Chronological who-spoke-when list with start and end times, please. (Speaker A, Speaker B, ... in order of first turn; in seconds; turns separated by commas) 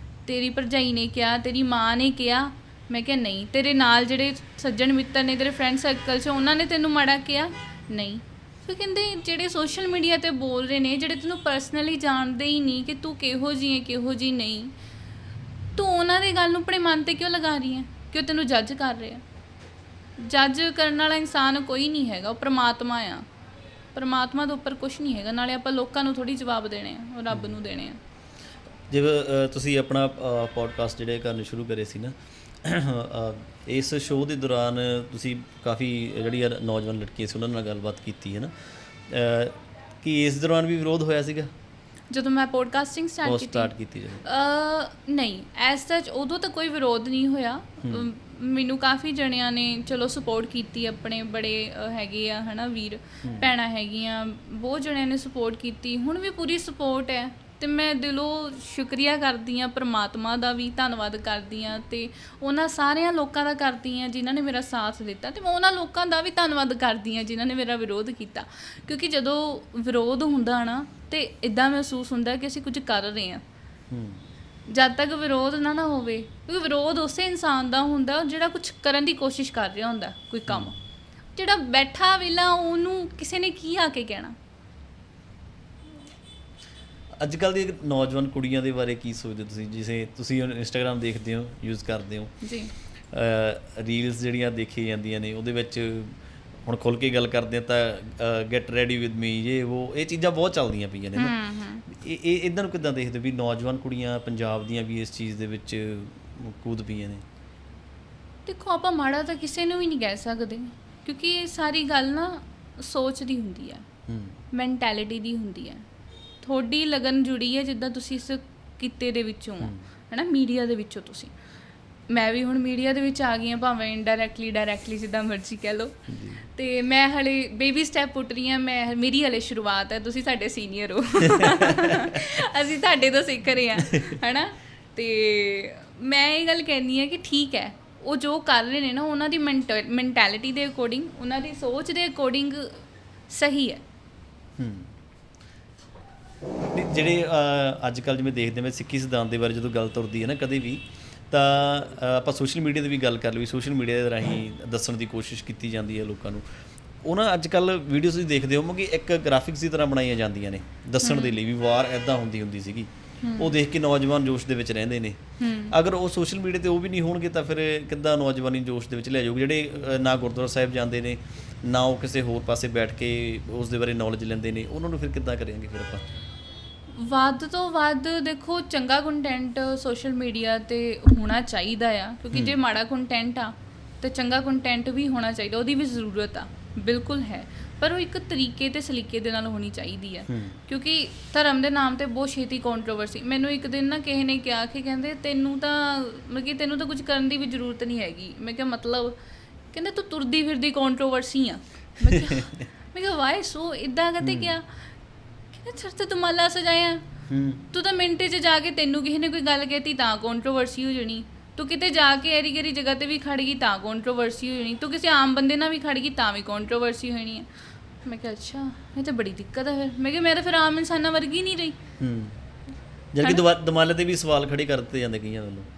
Speaker A: 0.2-14.7, Speaker A: 15.7-19.2, Speaker A: 20.2-23.2, Speaker A: 23.9-28.0, Speaker B: 27.3-27.6, Speaker B: 28.9-41.5, Speaker A: 42.1-43.7, Speaker B: 43.2-44.2, Speaker A: 44.2-73.4, Speaker B: 47.8-48.1, Speaker B: 53.2-53.5, Speaker B: 73.9-74.2, Speaker A: 74.7-80.8, Speaker B: 80.5-80.8, Speaker A: 81.3-84.3, Speaker B: 87.2-107.2, Speaker A: 92.4-92.7, Speaker A: 101.1-101.8, Speaker A: 108.5-113.8, Speaker B: 114.1-114.4, Speaker A: 114.5-115.8, Speaker A: 116.4-121.3, Speaker B: 119.6-119.8, Speaker A: 122.1-143.8, Speaker B: 126.1-126.5, Speaker B: 131.4-132.0, Speaker B: 144.6-144.9, Speaker B: 146.7-176.1, Speaker A: 161.0-161.4, Speaker A: 163.2-163.5, Speaker A: 165.4-165.7, Speaker A: 176.9-199.2, Speaker B: 182.3-182.6, Speaker B: 190.3-190.6, Speaker A: 199.7-204.7, Speaker B: 202.3-202.6, Speaker B: 204.2-204.5, Speaker A: 205.5-207.0, Speaker B: 207.3-207.6, Speaker A: 207.7-217.5, Speaker A: 218.0-221.8, Speaker B: 222.0-222.4, Speaker B: 223.1-225.7